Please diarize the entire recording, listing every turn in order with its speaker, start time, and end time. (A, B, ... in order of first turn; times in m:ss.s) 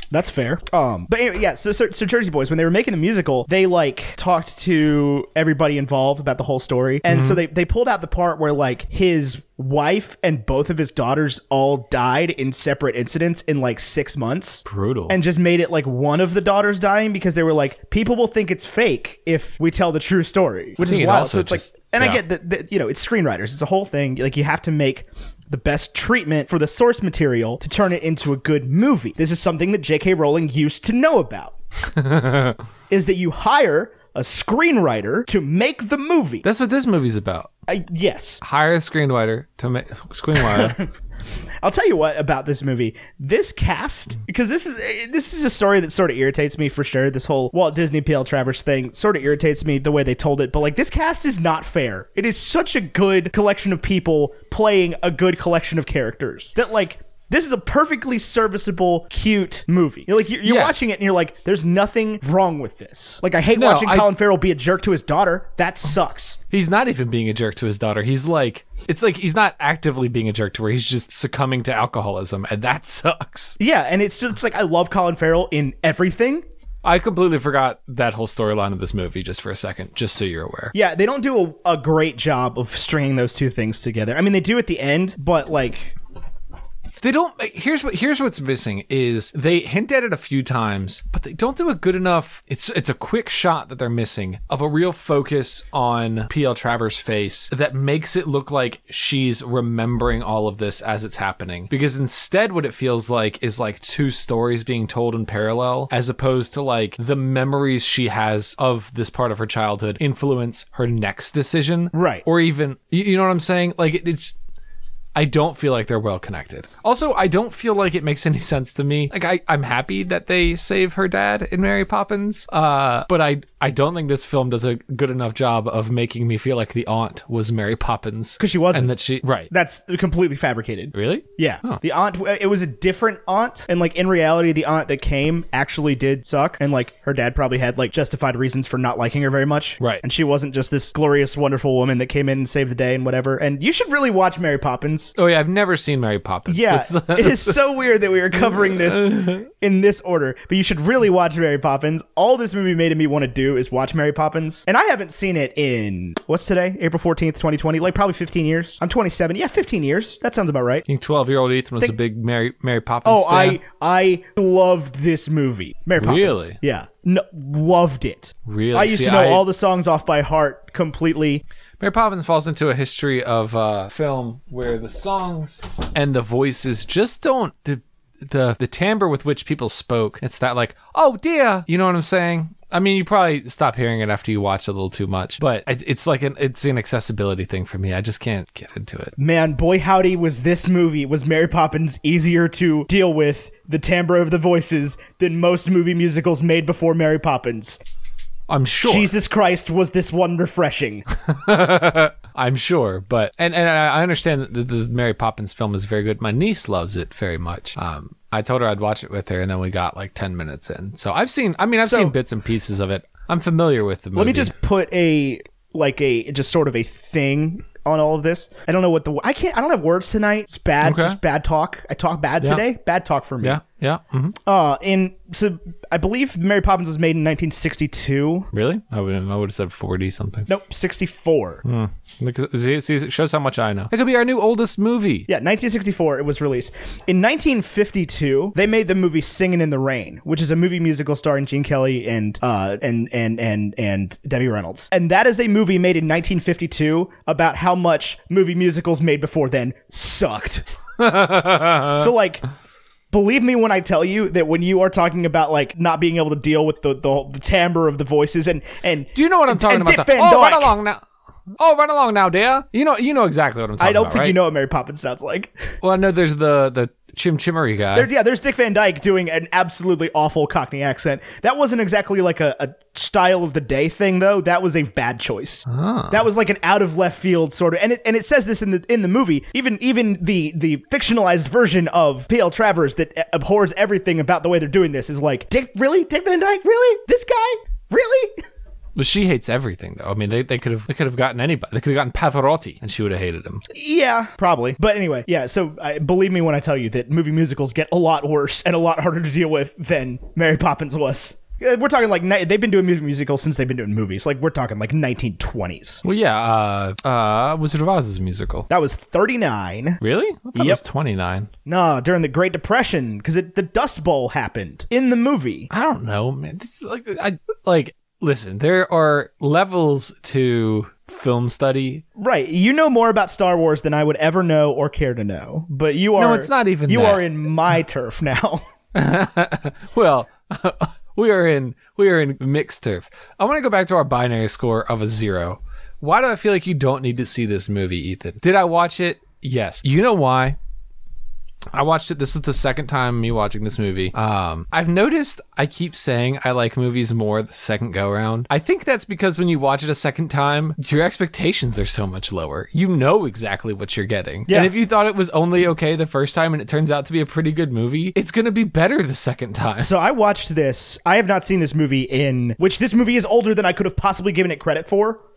0:00.1-0:31.6 A
0:07.1-0:07.4 B
0:14.7-0:15.2 B
0:20.8-0:22.2 B
0:31.9-0:32.6 B
0:32.9-0:36.4 A
0:36.4-0:37.5 B
0:37.7-0:38.4 A
0:38.4-0:40.8 B
0:40.4-0:40.9 A
0:41.6-1:06.4 A
1:00.4-1:00.9 B
1:03.6-1:04.1 B
1:06.5-1:13.6 B
1:13.6-1:16.4 A
1:16.8-1:20.8 B
1:20.7-1:26.0 A
1:27.0-1:54.3 B
1:51.9-1:52.2 A
1:55.2-2:09.5 B
2:08.4-2:08.9 A
2:09.5-2:25.1 A
2:10.9-2:11.8 B
2:25.2-2:27.6 B
2:26.5-2:40.9 A
2:28.6-2:29.4 B
2:40.9-2:43.6 B
2:43.0-2:51.4 A
2:46.0-2:46.6 B
2:48.4-2:49.5 B
2:51.8-3:09.1 B
3:09.2-3:17.8 A
3:18.5-3:19.1 B
3:18.8-3:21.1 A
3:21.3-3:34.5 B
3:31.8-3:32.2 A
3:34.2-3:43.6 A
3:40.8-3:41.2 B
3:43.4-3:44.4 B
3:44.5-3:48.5 A
3:48.5-3:50.5 B
3:50.5-3:51.6 A
3:51.6-3:55.3 B
3:55.3-4:10.6 A
4:11.0-4:12.1 B
4:11.9-4:12.4 A
4:13.1-4:20.8 A
4:19.2-4:21.0 B
4:21.6-4:24.4 B
4:23.8-4:25.7 A
4:25.8-4:28.1 B
4:27.9-4:48.4 A
4:35.7-4:36.2 B
4:49.0-4:53.6 B
4:53.7-5:06.0 A
5:06.0-5:08.7 B
5:08.7-5:10.0 A
5:10.0-5:11.5 B
5:10.6-5:10.8 A
5:11.7-5:15.7 A
5:15.7-5:22.0 B
5:22.2-5:28.6 A
5:26.2-5:27.3 B
5:28.9-5:40.6 B
5:41.7-5:59.9 B
5:54.5-5:54.7 A
5:59.8-6:05.2 A